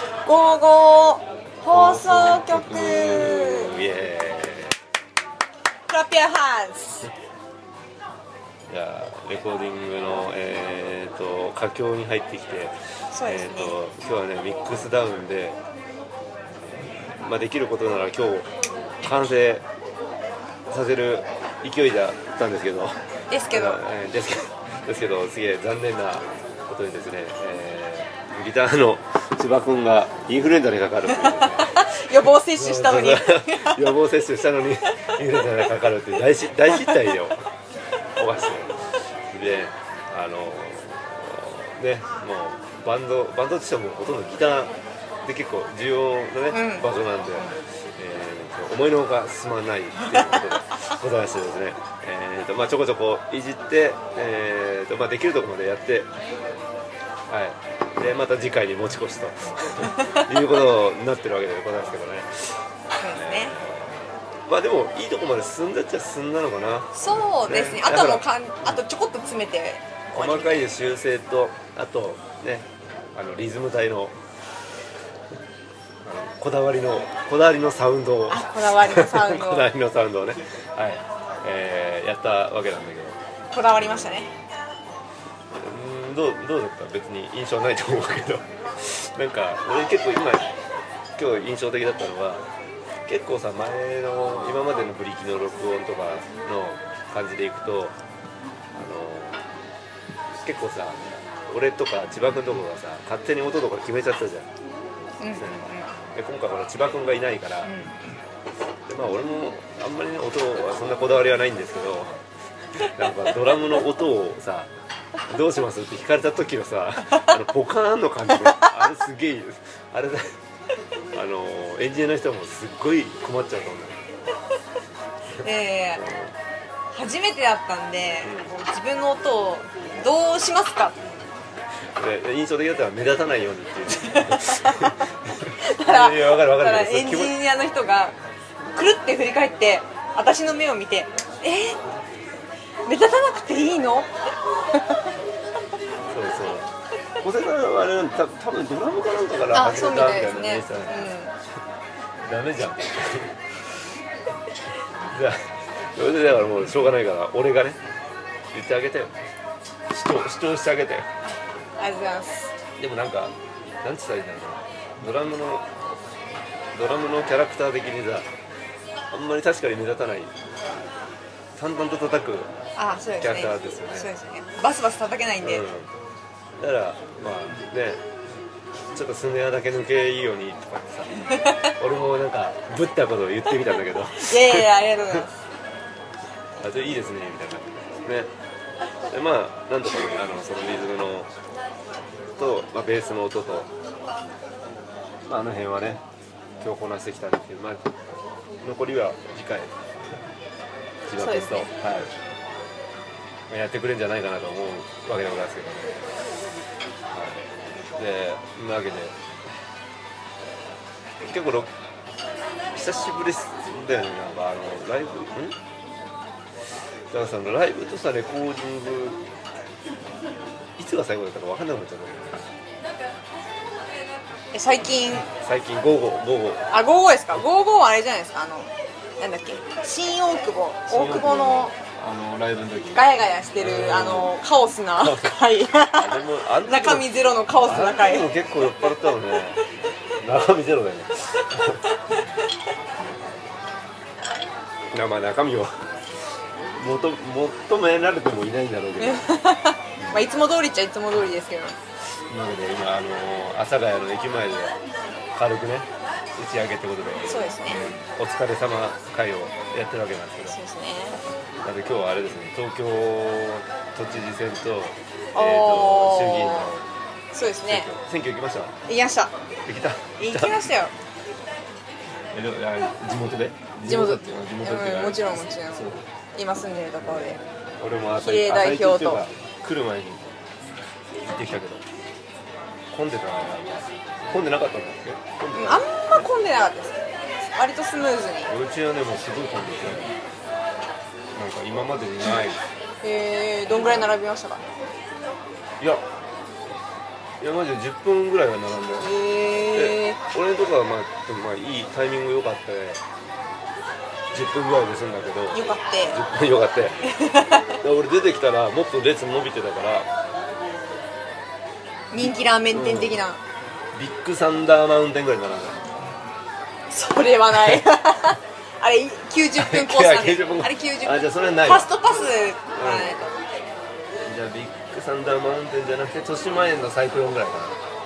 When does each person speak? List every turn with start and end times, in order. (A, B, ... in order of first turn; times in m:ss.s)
0:00.2-0:03.7 A
0:01.7-0:04.7 B
0:05.9-0:07.1 A
0:08.7-0:15.6 B
0:13.1-0:13.7 A
0:17.2-0:18.5 B
0:19.0-0:19.6 B
0:20.7-0:23.0 B
0:23.3-0:23.8 A
0:23.5-0:37.4 B
0:31.1-0:33.9 A
0:36.7-0:37.1 A
0:38.2-0:56.1 B
0:46.5-0:47.6 A
0:57.3-1:02.6 B
0:59.9-1:00.3 A
1:03.0-1:03.6 A
1:03.1-1:06.9 B
1:06.9-1:10.6 A
1:07.4-1:08.8 B
1:10.1-1:14.2 B
1:16.0-1:23.2 B
1:18.3-1:19.6 A
1:23.5-1:24.3 A
1:23.8-1:24.2 B
1:25.6-1:30.5 B
1:31.2-1:32.4 B
1:33.0-1:38.0 B
1:38.7-1:39.4 B
1:40.4-1:44.5 B
1:45.2-1:45.9 A
1:45.4-1:47.7 B
1:47.6-1:47.9 A
1:48.9-1:52.2 B
1:52.7-1:54.7 B
1:55.3-2:00.3 B
2:01.1-2:04.0 B
2:05.4-2:06.3 B
2:05.4-2:06.0 A
2:06.9-2:11.0 A
2:08.2-2:08.6 B
2:12.0-2:17.4 B
2:14.2-2:14.9 A
2:15.6-2:18.2 A
2:18.7-2:21.8 A
2:22.8-2:24.1 A
2:26.1-2:26.7 B
2:27.2-2:30.9 B
2:29.5-2:31.4 A
2:32.2-2:33.4 B
2:35.1-2:37.8 B
2:38.5-2:39.1 B
2:39.9-2:41.1 B
2:41.8-2:42.5 A
2:42.8-2:45.6 B
2:46.7-2:48.3 B
2:49.1-2:50.3 B
2:51.6-2:52.5 B
2:52.8-2:55.6 A
2:53.2-2:54.1 B
2:55.4-2:55.9 B
2:56.6-2:58.0 B
2:58.9-3:04.7 B
3:04.1-3:05.3 A
3:06.6-3:08.3 B
3:09.1-3:11.3 B
3:12.4-3:13.7 B
3:15.2-3:16.0 B
3:16.6-3:17.9 B
3:18.6-3:19.7 B
3:21.1-3:22.1 B
3:21.2-3:21.7 A
3:23.5-3:26.0 B
3:27.1-3:29.2 B
3:31.2-3:31.7 B
3:32.7-3:35.6 B
3:37.1-3:39.2 B
3:40.8-3:42.3 B
3:44.5-3:45.3 A
3:45.3-3:46.7 B
3:46.7-3:51.7 A
3:50.9-3:53.0 B
3:52.9-3:58.3 A
3:53.6-3:54.3 B
3:55.0-3:55.3 B
3:55.9-3:57.1 B
3:57.6-3:59.6 B
4:00.2-4:01.8 B
4:04.9-4:05.7 B
4:06.8-4:09.3 B
4:09.0-4:11.8 A
4:10.0-4:10.2 B
4:12.3-4:14.7 B
4:15.4-4:20.6 B
4:17.3-4:17.8 A
4:20.5-4:21.2 A
4:21.6-4:26.8 B
4:25.3-4:27.9 A
4:27.6-4:28.7 B
4:28.9-4:29.3 A
4:29.6-4:30.5 B
4:30.2-4:30.9 A
4:32.3-4:36.0 B
4:33.8-4:37.4 A
4:37.0-4:40.2 B
4:38.1-4:39.2 A
4:41.2-4:41.8 B
4:42.9-4:45.9 B
4:45.5-4:47.0 A
4:47.5-4:48.5 A
4:48.5-4:50.1 B
4:51.3-4:52.6 B
4:53.0-4:54.6 A
4:57.4-5:03.0 B
4:59.0-5:00.2 A
5:04.3-5:07.0 B
5:05.5-5:06.2 A
5:07.0-5:07.8 A
5:07.8-5:10.1 B
5:12.1-5:13.4 A
5:12.7-5:13.2 B
5:13.9-5:15.8 B
5:16.9-5:23.3 A
5:19.6-5:23.2 B
5:24.2-5:27.8 B